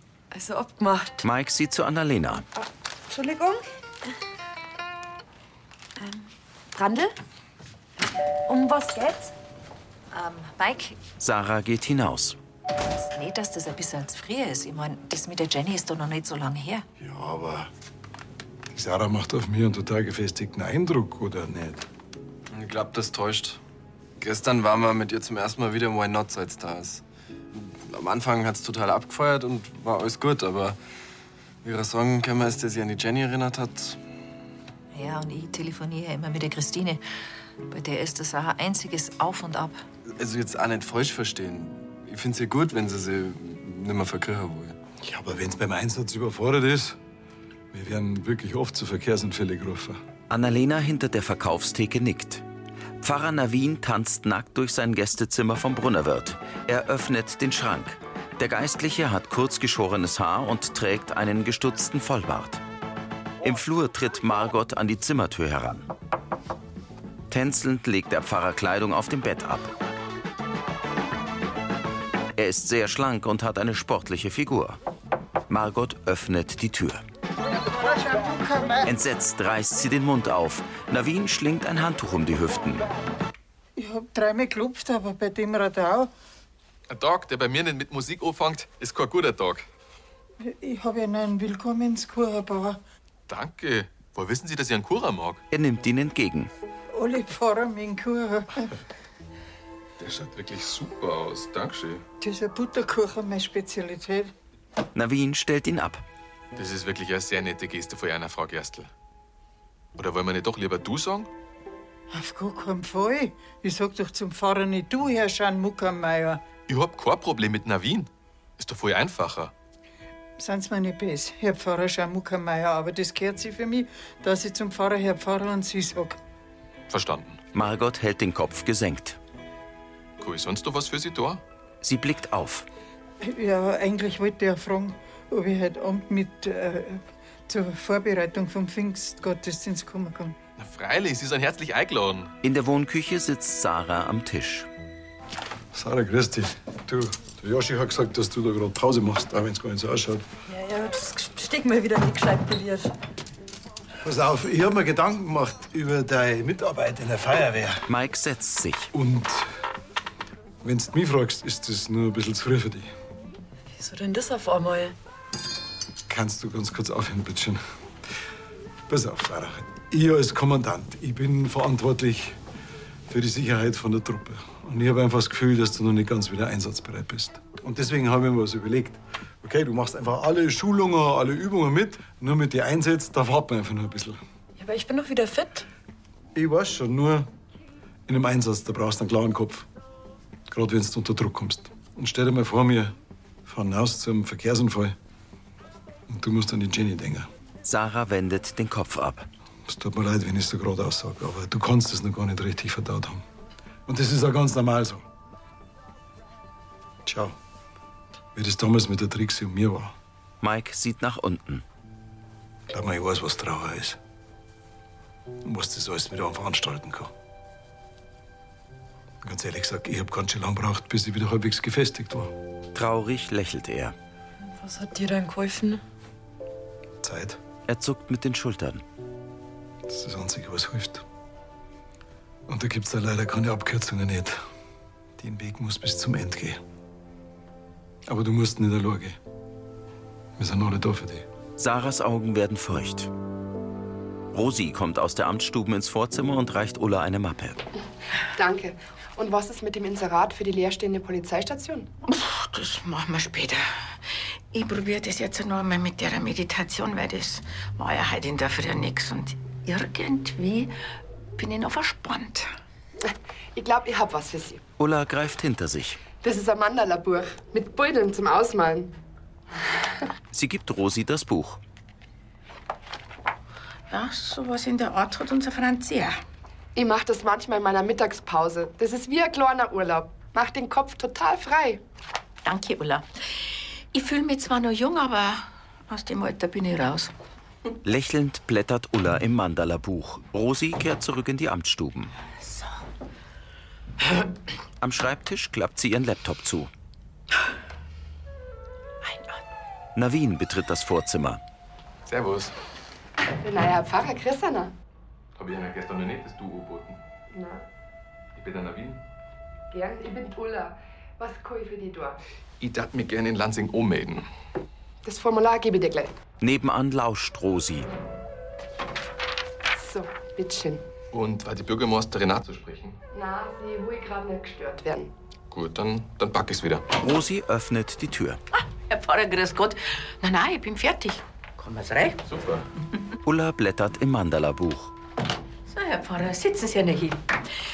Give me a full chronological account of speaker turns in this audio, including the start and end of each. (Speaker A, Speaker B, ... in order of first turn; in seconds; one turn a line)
Speaker A: 0.3-1.2
Speaker B: 1.2-2.5
Speaker C: 8.7-9.3
Speaker C: 10.1-11.0
Speaker B: 11.2-12.4
Speaker C: 12.9-16.9
Speaker D: 17.0-17.7
Speaker D: 18.7-21.9
Speaker E: 22.5-23.6
Speaker E: 24.2-30.8
Speaker E: 31.6-34.0
Speaker C: 34.9-37.0
Speaker C: 37.7-39.8
Speaker E: 40.1-44.8
Speaker D: 45.0-47.0
Speaker D: 47.7-50.0
Speaker B: 50.3-52.4
Speaker B: 53.0-62.6
Speaker B: 63.4-65.9
Speaker B: 67.3-69.7
Speaker B: 72.3-74.8
Speaker B: 75.5-77.0
Speaker F: 77.8-78.9
Speaker B: 78.8-82.9
Speaker F: 83.8-86.1
Speaker G: 86.9-89.7
Speaker F: 90.4-92.8
Speaker G: 93.3-95.4
Speaker B: 95.5-96.5
Speaker F: 96.9-98.7
Speaker G: 100.0-102.0
Speaker F: 102.2-104.3
Speaker B: 105.0-106.0
Speaker G: 106.6-108.9
Speaker G: 110.0-111.3
Speaker F: 112.1-116.4
Speaker G: 116.7-119.5
Speaker F: 120.4-126.2
Speaker G: 126.9-127.4
Speaker B: 127.5-129.2
Speaker G: 130.2-131.4
Speaker B: 131.8-132.7
Speaker F: 133.2-140.4
Speaker G: 140.6-142.3
Speaker B: 142.4-144.7
Speaker D: 145.7-150.2
Speaker A: 150.5-152.9
Speaker D: 154.0-157.8
Speaker B: 157.9-158.9
Speaker D: 158.9-159.5
Speaker D: 160.6-162.9
Speaker A: 163.7-164.9
Speaker D: 166.1-167.6
Speaker D: 168.9-172.4
Speaker D: 173.1-184.2
Speaker A: 184.6-185.7
Speaker D: 186.3-187.3
Speaker D: 188.1-189.7
Speaker D: 190.5-192.9
Speaker D: 193.5-195.0
Speaker D: 196.1-197.3
Speaker B: 197.6-199.3
Speaker D: 199.7-203.2
Speaker D: 203.9-205.0
Speaker D: 207.1-207.4
Speaker D: 208.3-209.9
Speaker B: 210.4-211.6
Speaker D: 212.7-214.0
Speaker D: 215.4-217.1
Speaker D: 219.2-222.3
Speaker B: 222.7-223.9
Speaker A: 224.4-225.8
Speaker D: 227.0-227.4
Speaker B: 227.7-228.8
Speaker D: 229.9-231.1
Speaker D: 232.5-234.4
Speaker D: 235.2-236.6
Speaker D: 238.1-239.2
Speaker D: 240.4-241.3
Speaker B: 241.6-243.1
Speaker B: 244.3-247.6
Speaker H: 248.3-251.9
Speaker I: 252.1-260.7
Speaker I: 261.4-262.5
Speaker H: 263.0-264.6
Speaker B: 264.8-266.0
Speaker H: 266.2-268.9
Speaker B: 270.3-271.6
Speaker I: 273.9-276.2
Speaker H: 276.8-281.8
Speaker I: 282.4-287.1
Speaker B: 287.8-292.1
Speaker B: 294.8-296.7
Speaker I: 299.0-299.4
Speaker B: 299.9-301.4
Speaker G: 302.1-302.5
Speaker H: 303.4-304.7
Speaker G: 305.4-307.0
Speaker H: 307.3-307.6
Speaker G: 308.4-309.0
Speaker H: 309.7-312.2
Speaker G: 312.6-314.3
Speaker H: 315.0-316.1
Speaker B: 316.4-317.9
Speaker H: 319.7-320.9
Speaker G: 321.1-323.0
Speaker H: 323.1-325.1
Speaker G: 325.5-326.9
Speaker B: 327.0-328.4
Speaker I: 328.6-332.2
Speaker G: 332.2-332.7
Speaker B: 333.2-334.9
Speaker I: 335.7-337.3